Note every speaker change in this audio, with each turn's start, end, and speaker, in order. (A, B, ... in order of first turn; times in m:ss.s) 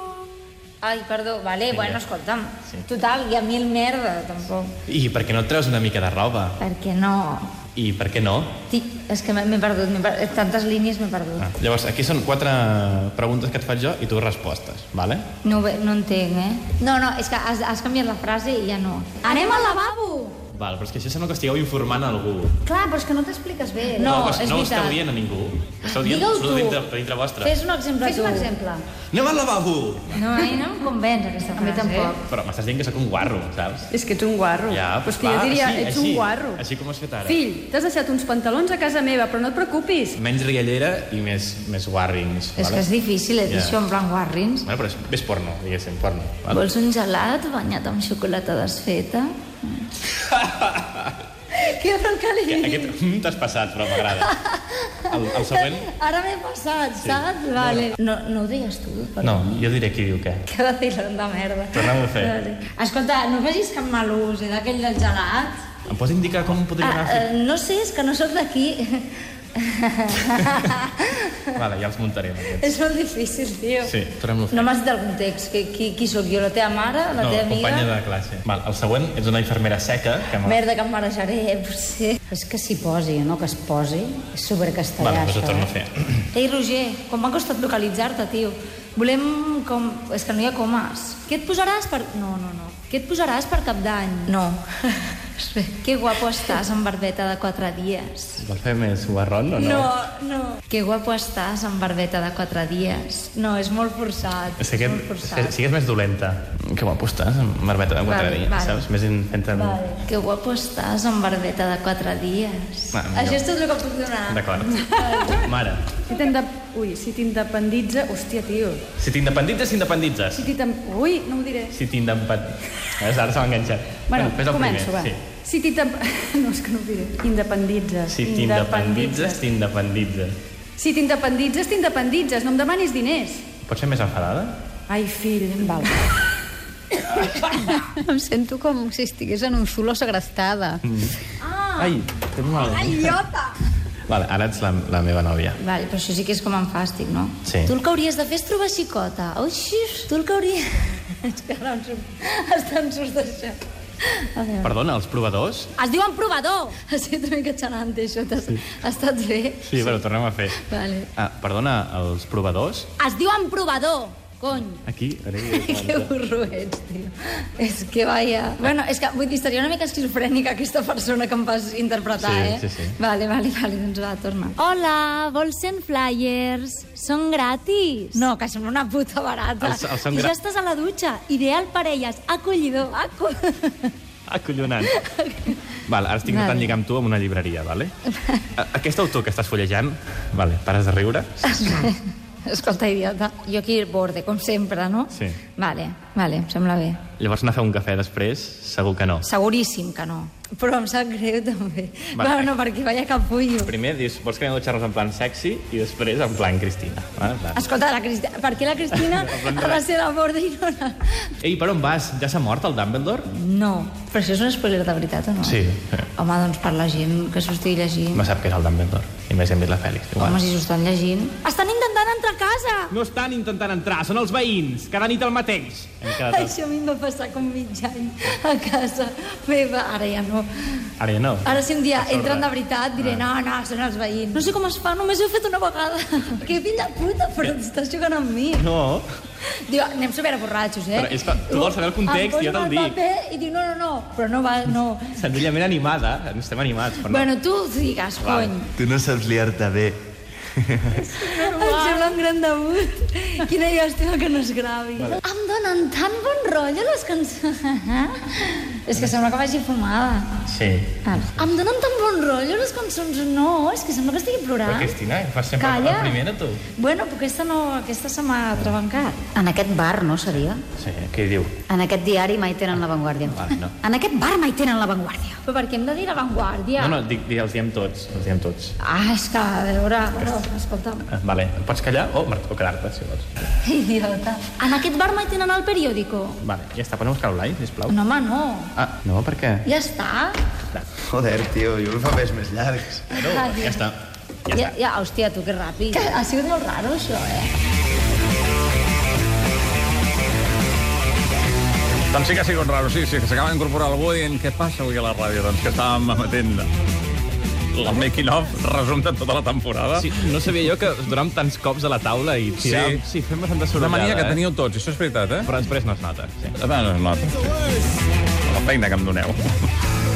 0:00.8-0:04.8 A
0:01.7-0:02.0 B
0:04.8-0:06.6 B
0:06.6-0:07.5 A
0:07.7-0:08.6 B
0:08.7-0:11.5 A
0:11.4-0:15.2 B
0:15.4-0:20.3 A
0:20.5-0:22.6 B
0:22.6-0:24.2 C
0:23.9-0:25.0 A
0:24.0-0:27.5 B
0:25.9-0:26.3 A
0:27.4-0:28.5 A
0:28.0-0:28.8 C
0:29.1-0:30.2 B
0:30.1-0:32.2 A
0:31.6-0:32.1 D
0:32.2-0:33.9 B
0:33.9-0:36.6 D
0:34.7-0:37.4 B
0:37.2-0:40.2 D
0:40.2-0:42.8 B
0:42.6-0:44.7 A
0:43.5-0:43.8 B
0:44.6-0:46.6 B
0:46.5-0:49.9 A
0:50.2-0:51.1 B
0:51.5-0:52.9 A
0:52.5-0:54.3 B
0:54.1-0:59.6 A
0:55.0-0:55.9 B
0:57.0-0:57.9 B
0:59.2-1:00.4 B
1:00.4-1:05.6 A
1:01.7-1:02.3 B
1:05.9-1:07.3 B
1:06.8-1:11.6 A
1:11.5-1:12.7 B
1:12.6-1:13.9 A
1:13.8-1:14.7 B
1:14.5-1:17.9 A
1:17.2-1:20.6 B
1:20.4-1:22.4 A
1:22.3-1:25.7 C
1:25.0-1:26.2 B
1:26.3-1:38.4 A
1:38.4-1:39.9 B
1:39.5-1:45.5 A
1:44.6-1:49.8 B
1:48.0-1:48.8 A
1:49.5-1:55.5 A
1:52.9-1:53.4 B
1:54.3-1:55.9 B
1:56.0-1:58.8 D
1:59.0-2:00.4 B
2:00.3-2:01.7 D
2:01.7-2:05.2 B
2:04.1-2:09.4 D
2:08.1-2:10.4 B
2:10.8-2:13.4 D
2:13.6-2:14.6 B
2:14.9-2:16.1 D
2:18.0-2:20.8 C
2:20.8-2:21.2 B
2:21.4-2:21.9 A
2:21.8-2:23.2 B
2:22.6-2:23.4 A
2:24.1-2:25.6 B
2:25.6-2:34.7 A
2:27.4-2:27.7 B
2:34.6-2:35.7 B
2:35.8-2:39.9 A
2:39.6-2:40.6 B
2:40.5-2:41.1 A
2:41.1-2:42.9 B
2:43.0-2:44.8 A
2:44.7-2:46.1 B
2:45.4-3:03.9 A
2:52.1-2:53.0 B
2:59.6-3:00.4 B
3:04.3-3:04.9 B
3:04.8-3:05.6 A
3:05.8-3:07.9 B
3:06.2-3:06.8 A
3:08.1-3:08.4 A
3:08.6-3:11.8 B
3:11.5-3:17.0 A
3:15.1-3:15.4 B
3:17.2-3:19.2 B
3:19.2-3:23.7 A
3:22.1-3:22.5 B
3:23.6-3:27.6 B
3:27.5-3:31.3 A
3:29.0-3:29.8 B
3:31.4-3:33.3 B
3:33.3-3:35.6 A
3:35.4-3:36.1 B
3:36.2-3:38.2 A
3:38.1-3:40.4 B
3:40.2-3:42.9 A
3:42.9-3:46.5 B
3:46.2-3:50.9 A
3:51.0-3:53.2 B
3:51.4-3:58.7 A
3:58.6-3:59.1 B
3:59.4-4:05.2 A
4:00.9-4:03.0 B
4:05.1-4:07.3 B
4:07.1-4:08.7 A
4:08.2-4:08.6 B
4:08.7-4:10.0 E
4:11.0-4:12.2 D
4:11.3-4:20.3 A
4:20.5-4:21.2 B
4:21.0-4:24.9 A
4:24.6-4:26.6 B
4:25.6-4:26.2 A
4:26.8-4:29.2 A
4:29.3-4:30.6 C
4:30.8-4:31.6 B
4:31.7-4:35.4 C
4:33.3-4:33.7 B
4:35.4-4:37.0 A
4:36.8-4:38.7 B
4:38.8-4:41.1 A
4:41.1-4:43.2 B
4:43.6-4:46.4 A
4:46.4-4:48.0 B
4:47.9-4:48.7 A
4:48.8-4:49.6 B
4:49.6-4:50.4 A
4:50.7-4:54.7 B
4:51.2-4:53.0 E
4:53.1-4:53.8 A
4:54.5-4:57.5 A
5:02.1-5:06.7 F
5:07.7-5:10.1 F
5:10.0-5:14.4 B
5:12.6-5:13.0 F
5:13.7-5:15.5 F
5:15.5-5:16.5 B
5:16.6-5:17.5 F
5:18.5-5:19.4 F